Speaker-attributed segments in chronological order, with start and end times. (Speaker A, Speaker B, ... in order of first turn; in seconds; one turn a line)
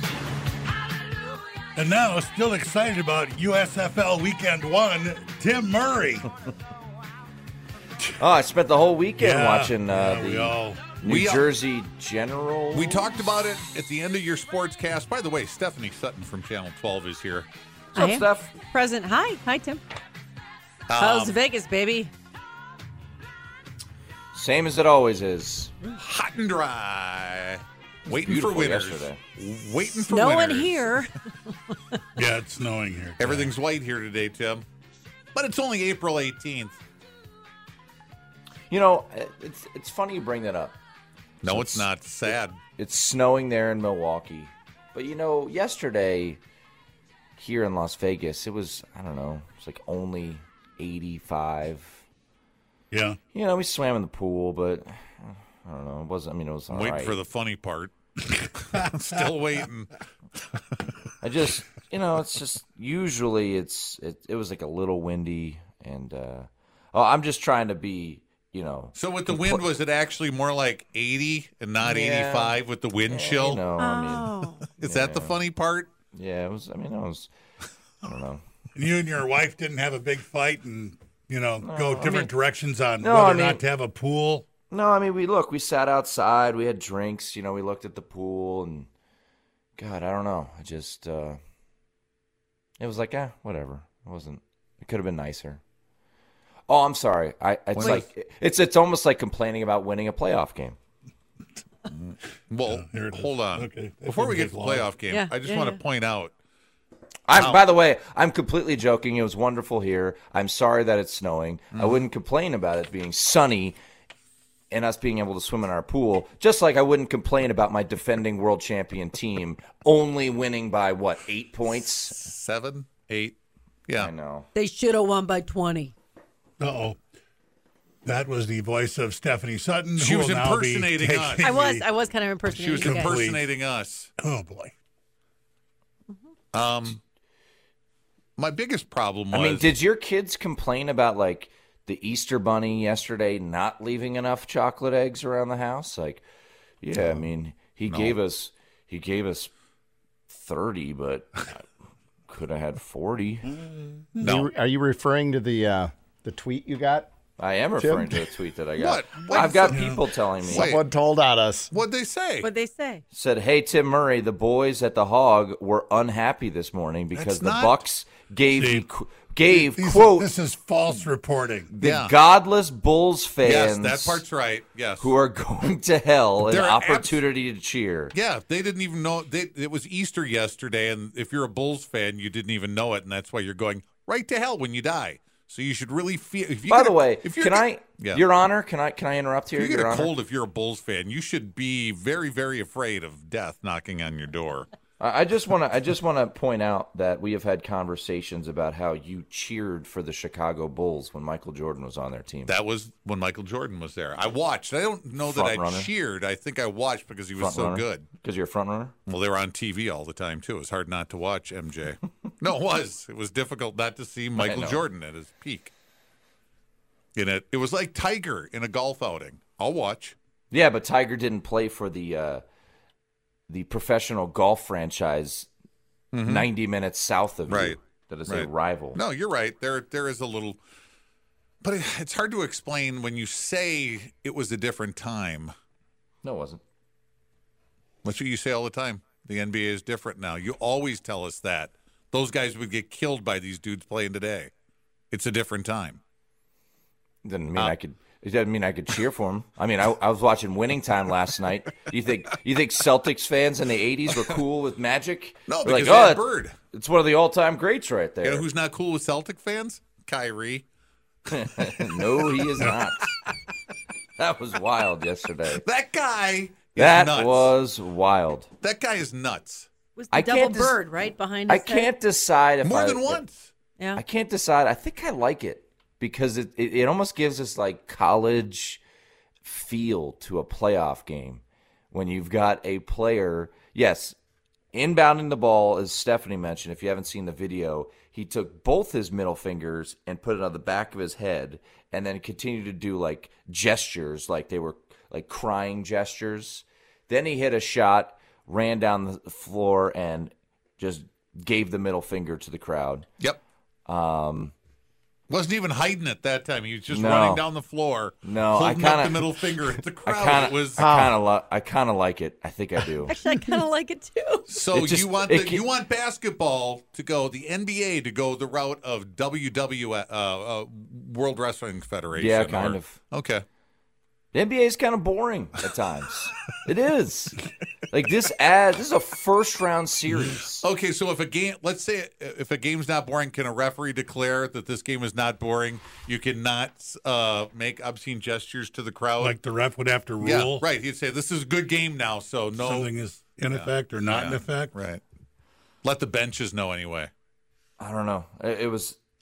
Speaker A: 1.8-6.3
Speaker B: 8.2-13.1
Speaker A: 9.2-10.8
Speaker C: 11.0-11.5
Speaker C: 12.7-17.5
Speaker B: 17.9-18.5
Speaker D: 17.9-19.8
Speaker C: 20.9-21.4
Speaker D: 21.0-22.1
Speaker B: 24.3-25.7
Speaker C: 26.0-31.1
Speaker B: 28.1-29.2
Speaker D: 30.0-31.1
Speaker A: 32.1-33.5
Speaker C: 33.2-34.6
Speaker C: 35.3-36.8
Speaker B: 38.7-40.8
Speaker C: 41.4-42.6
Speaker B: 41.4-46.4
Speaker B: 47.4-52.0
Speaker A: 52.9-53.2
Speaker B: 53.3-57.2
Speaker C: 56.7-57.9
Speaker C: 58.5-59.9
Speaker B: 61.2-69.6
Speaker C: 69.0-73.7
Speaker B: 71.8-75.4
Speaker D: 73.8-74.7
Speaker C: 74.7-75.9
Speaker B: 76.1-77.3
Speaker B: 78.0-78.4
Speaker A: 78.7-84.4
Speaker B: 81.6-82.3
Speaker B: 83.0-83.6
Speaker B: 84.7-88.9
Speaker B: 89.8-91.4
Speaker B: 92.8-95.6
Speaker B: 96.7-100.8
Speaker C: 97.7-98.0
Speaker D: 97.8-98.0
Speaker C: 101.9-106.3
Speaker A: 102.7-104.9
Speaker D: 105.1-105.8
Speaker B: 107.3-113.8
Speaker C: 107.3-107.6
Speaker B: 114.7-122.2
Speaker C: 122.2-123.3
Speaker B: 124.0-124.5
Speaker D: 124.5-125.9
Speaker A: 126.6-127.0
Speaker A: 128.0-131.8
Speaker C: 130.0-131.5
Speaker D: 131.4-133.2
Speaker C: 132.5-134.1
Speaker A: 132.8-133.4
Speaker A: 134.2-134.7
Speaker C: 136.5-137.0
Speaker C: 138.4-139.7
Speaker B: 139.3-146.2
Speaker B: 146.8-149.5
Speaker C: 147.9-148.1
Speaker B: 150.3-151.6
Speaker B: 152.3-153.6
Speaker A: 154.2-154.4
Speaker E: 154.2-157.1
Speaker C: 154.2-154.5
Speaker B: 157.4-160.8
Speaker E: 157.8-158.2
Speaker C: 158.8-160.8
Speaker A: 159.7-160.0
Speaker E: 160.5-161.7
Speaker C: 161.7-162.5
Speaker D: 162.4-163.0
Speaker B: 163.1-170.3
Speaker C: 167.1-167.8
Speaker A: 168.5-168.8
Speaker A: 169.5-171.7
Speaker B: 171.7-174.2
Speaker C: 171.8-172.1
Speaker C: 173.4-175.1
Speaker B: 175.0-178.1
Speaker C: 176.4-177.2
Speaker C: 178.1-188.2
Speaker B: 186.7-190.1
Speaker C: 189.6-194.7
Speaker B: 195.0-202.5
Speaker C: 202.5-208.1
Speaker B: 205.3-205.9
Speaker B: 207.4-208.9
Speaker C: 209.1-215.7
Speaker B: 214.4-214.8
Speaker C: 217.1-220.1
Speaker B: 220.5-222.4
Speaker B: 223.5-225.5
Speaker C: 226.1-226.5
Speaker B: 226.2-229.0
Speaker C: 227.5-227.8
Speaker C: 228.3-230.6
Speaker C: 231.6-235.5
Speaker B: 236.2-236.6
Speaker C: 238.0-244.5
Speaker C: 245.1-246.0
Speaker B: 247.2-258.4
Speaker C: 255.5-256.5
Speaker C: 258.2-260.6
Speaker B: 261.3-263.1
Speaker B: 264.2-265.6
Speaker C: 265.5-267.5
Speaker B: 266.8-268.5
Speaker C: 268.6-269.7
Speaker D: 269.9-271.9
Speaker B: 270.1-270.8
Speaker B: 271.5-273.2
Speaker C: 272.6-273.5
Speaker B: 273.9-278.8
Speaker B: 279.4-284.1
Speaker B: 284.7-303.1
Speaker B: 303.9-304.5
Speaker C: 305.3-310.8
Speaker B: 306.9-307.4
Speaker B: 308.2-309.3
Speaker B: 310.0-313.2
Speaker E: 310.8-311.1
Speaker D: 313.1-314.5
Speaker C: 314.5-323.4
Speaker B: 314.7-315.6
Speaker B: 322.1-323.0
Speaker B: 324.3-330.6
Speaker C: 330.6-339.4
Speaker A: 339.2-340.6
Speaker C: 340.2-342.9
Speaker A: 342.6-344.7
Speaker C: 343.5-345.0
Speaker C: 345.8-347.1
Speaker B: 347.8-349.0